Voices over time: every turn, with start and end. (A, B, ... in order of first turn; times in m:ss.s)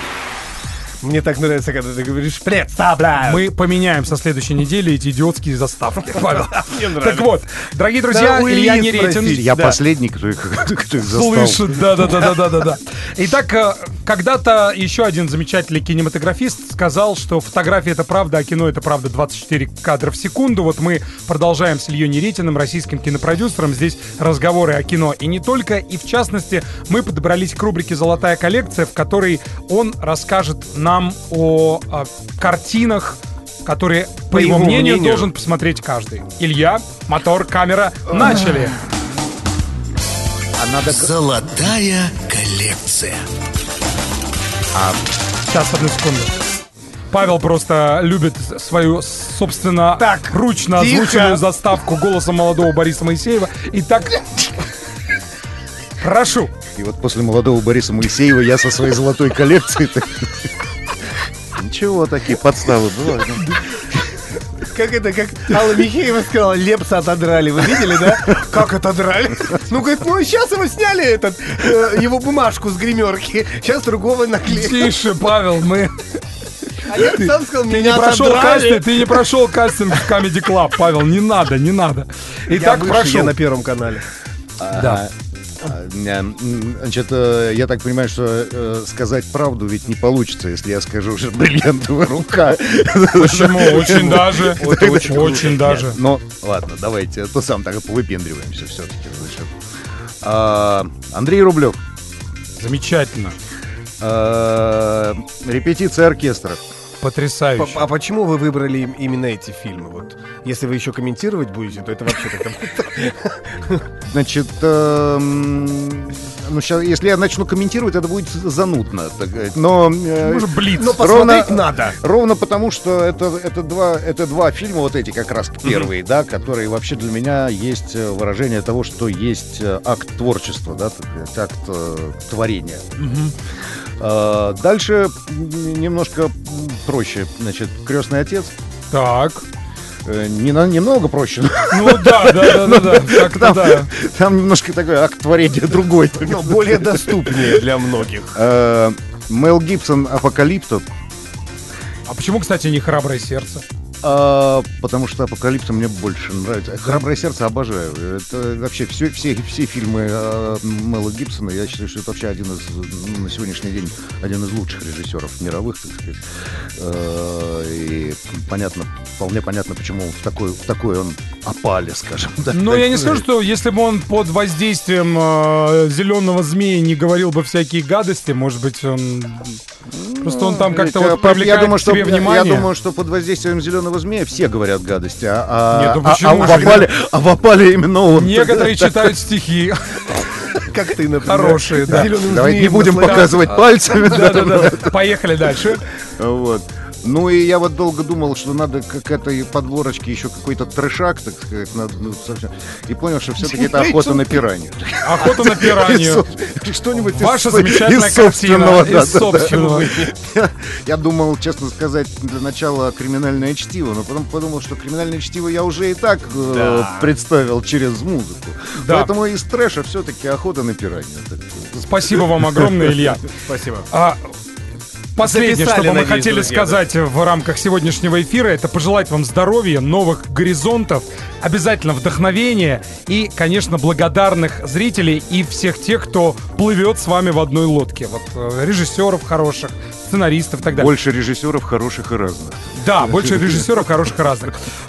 0:01.0-0:03.4 A
0:03.2-0:09.4 B
0:06.1-0:07.4 A
0:08.1-0:09.8 A
0:09.3-0:11.8 C
0:11.1-0:38.8 B
0:34.3-0:35.3 A
0:38.1-0:38.5 C
0:40.5-0:41.1 C
0:40.9-0:43.2 D
0:44.7-0:45.0 C
0:45.5-0:46.4 B
0:47.1-0:54.6 B
0:50.0-0:51.4 A
0:56.0-0:56.5 B
0:56.7-1:00.5 C
1:01.5-1:04.0 C
1:04.6-1:15.0 A
1:14.5-1:15.9 B
1:16.8-1:19.2 A
1:16.9-1:23.3 B
1:22.5-1:24.0 A
1:24.6-1:39.5 C
1:33.2-1:35.9 B
1:34.9-1:35.4 A
1:40.2-1:41.8 C
1:42.6-1:43.3 B
1:44.0-1:46.6 C
1:47.0-1:47.8 B
1:47.6-1:53.8 A
1:54.0-2:12.9 C
2:00.2-2:01.0 B
2:00.7-2:02.0 A
2:13.0-2:13.3 B
2:14.0-2:18.5 C
2:18.9-2:19.4 B
2:20.0-2:27.6 C
2:21.7-2:23.9 B
2:26.2-2:28.4 A
2:28.3-2:30.8 C
2:32.1-2:33.6 B
2:34.0-2:46.2 C
2:46.7-2:53.3 C
2:52.5-2:59.6 B
2:59.9-3:09.1 C
3:00.2-3:02.7 B
3:05.7-3:06.9 B
3:08.1-3:10.3 B
3:10.6-3:14.8 A
3:11.2-3:12.1 B
3:12.2-3:15.1 C
3:13.0-3:15.8 B
3:15.6-3:42.4 C
3:23.5-3:24.3 A
3:25.0-3:26.2 B
3:27.1-3:30.0 B
3:36.4-3:37.1 A
3:38.8-3:39.1 B
3:41.8-3:43.2 B
3:43.3-3:43.9 A
3:43.9-3:44.2 B
3:45.2-4:00.9 B
3:45.2-3:46.8 A
4:00.6-4:03.6 C
4:02.8-4:04.6 B